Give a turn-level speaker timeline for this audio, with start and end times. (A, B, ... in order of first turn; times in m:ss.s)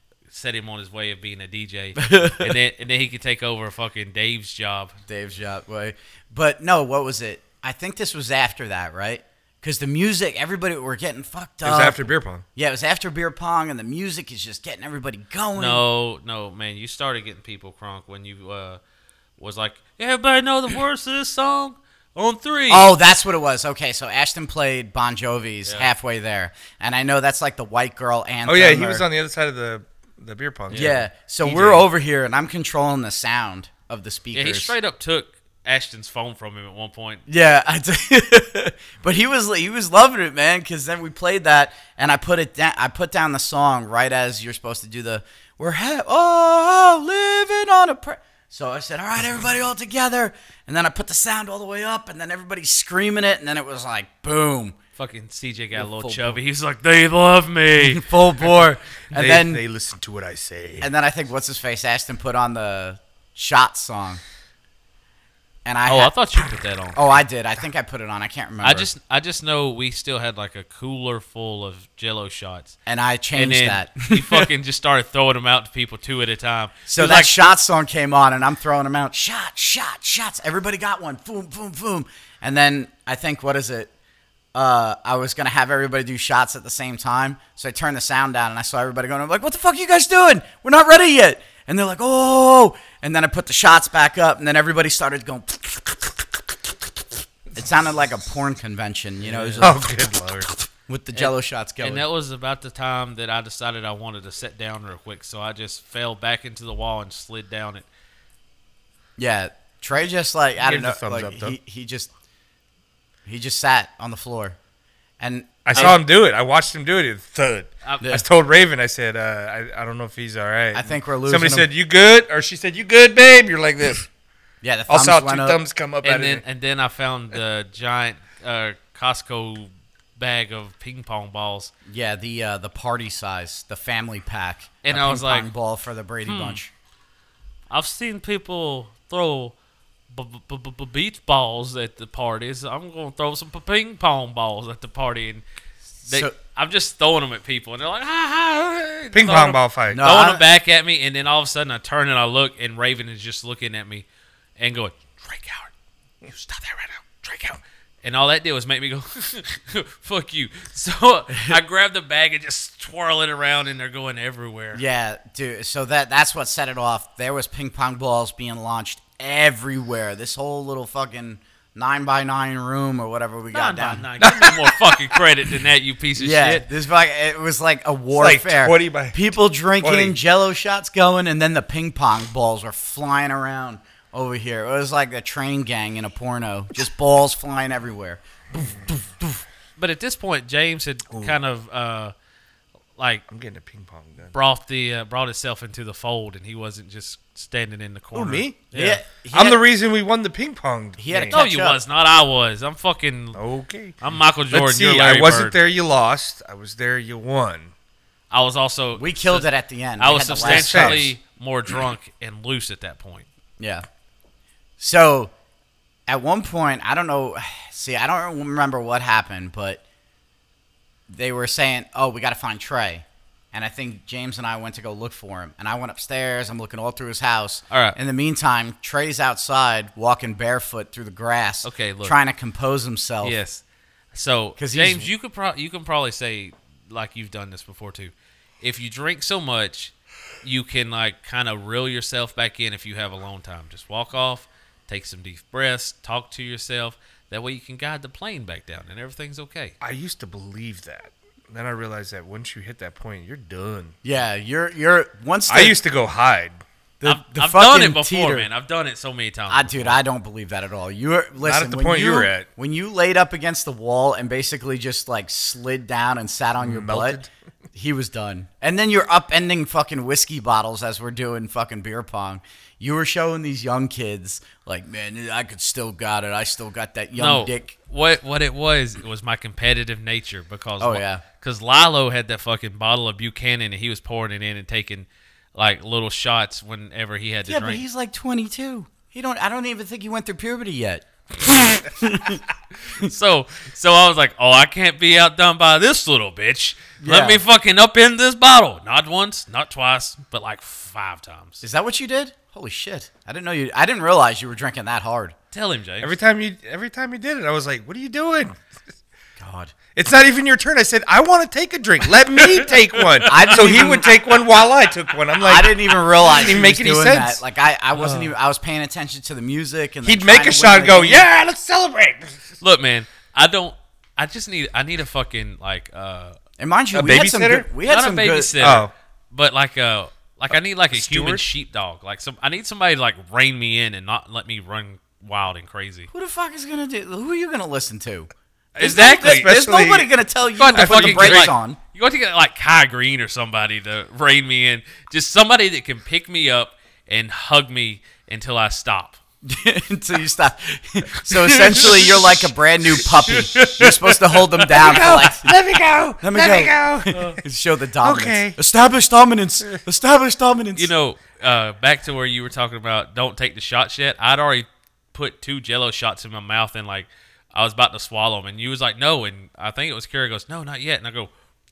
0:00.3-0:05.0 A
0:02.0-0:02.6 B
0:05.1-0:15.8 B
0:11.6-0:12.4 C
0:15.6-0:18.8 A
0:19.4-0:22.9 A
0:22.7-0:29.0 B
0:28.5-0:30.9 C
0:30.7-0:31.8 A
0:30.7-0:34.7 B
0:34.3-0:37.2 A
0:37.3-0:54.8 B
0:55.0-0:58.1 A
0:55.7-0:56.4 B
0:57.8-0:59.6 B
0:59.1-1:00.9 C
1:00.8-1:04.2 B
1:05.6-1:06.1 B
1:05.9-1:07.0 A
1:06.9-1:08.9 B
1:08.6-1:12.7 A
1:12.8-1:14.5 B
1:13.3-1:17.3 A
1:16.9-1:23.9 B
1:24.5-1:36.4 B
1:37.5-1:39.8 B
1:39.2-1:39.7 A
1:39.6-1:40.5 C
1:40.9-1:42.0 B
1:41.1-1:47.8 A
1:49.2-1:52.1 B
1:50.6-1:51.5 C
1:53.2-1:54.6 B
1:55.2-1:56.0 B
1:55.6-2:04.1 C
1:57.8-1:58.1 A
2:00.7-2:01.7 B
2:04.6-2:05.6 B
2:04.9-2:06.4 C
2:06.0-2:11.7 A
2:11.9-2:16.7 B
2:14.8-2:15.5 A
2:16.2-2:16.6 A
2:17.7-2:19.5 A
2:20.1-2:25.4 A
2:26.0-2:26.3 B
2:26.1-2:34.1 A
2:29.1-2:30.0 C
2:29.9-2:30.4 B
2:34.6-2:35.7 A
2:36.2-2:44.8 A
2:41.3-2:41.6 B
2:44.7-2:54.1 B
2:53.5-2:56.6 A
2:54.2-2:55.2 C
2:56.2-3:09.4 B
2:58.1-2:59.2 C
2:59.8-3:00.2 C
3:09.8-3:12.1 A
3:11.1-3:11.4 C
3:13.0-3:13.2 A
3:13.3-3:14.3 C
3:14.3-3:19.0 A
3:18.1-3:18.6 C
3:18.7-3:19.6 B
3:19.3-3:21.4 C
3:21.0-3:21.8 B
3:21.3-3:23.4 A
3:23.3-3:27.7 C
3:24.0-3:25.6 A
3:28.3-3:29.5 A
3:29.0-3:31.1 B
3:30.0-3:33.3 A
3:30.4-3:31.1 C
3:33.6-3:33.8 B
3:34.8-3:35.3 B
3:36.1-3:39.8 B
3:41.1-3:53.4 B
3:47.7-3:48.0 A
3:51.6-3:52.1 A
3:53.2-3:53.6 A
3:54.1-4:09.8 A
3:54.6-3:55.1 B
4:09.8-4:14.0 C
4:14.0-4:15.8 B
4:15.5-4:16.6 C
4:17.0-4:18.5 B
4:17.0-4:20.0 A
4:19.5-4:27.2 B
4:21.4-4:22.5 C
4:26.6-4:27.3 C
4:27.7-4:37.7 B
4:37.2-4:47.8 A
4:40.8-4:41.2 B
4:47.4-4:52.4 B
4:52.9-5:01.6 A
4:57.0-4:57.4 B
5:01.6-5:05.3 B
5:05.5-5:06.1 A
5:06.0-5:08.6 C
5:09.4-5:09.7 B
5:09.9-5:17.4 C
5:12.4-5:13.9 A
5:13.2-5:14.2 B
5:15.4-5:21.2 B
5:17.9-5:18.3 C
5:20.0-5:22.5 C
5:22.6-5:26.4 A
5:26.6-5:28.6 B
5:26.9-5:27.7 C
5:27.8-5:36.1 A
5:28.6-5:28.9 C
5:30.9-5:31.4 C
5:36.1-5:41.8 B
5:38.8-5:39.5 A
5:39.0-5:40.1 C
5:40.6-5:49.2 A
5:40.7-5:41.5 C
5:49.4-5:55.6 B
5:51.7-5:52.4 C
5:53.0-5:57.2 C
5:53.2-5:53.9 A
5:54.6-5:55.1 A
5:56.2-6:00.9 B
5:58.0-5:58.6 C
6:00.8-6:11.3 A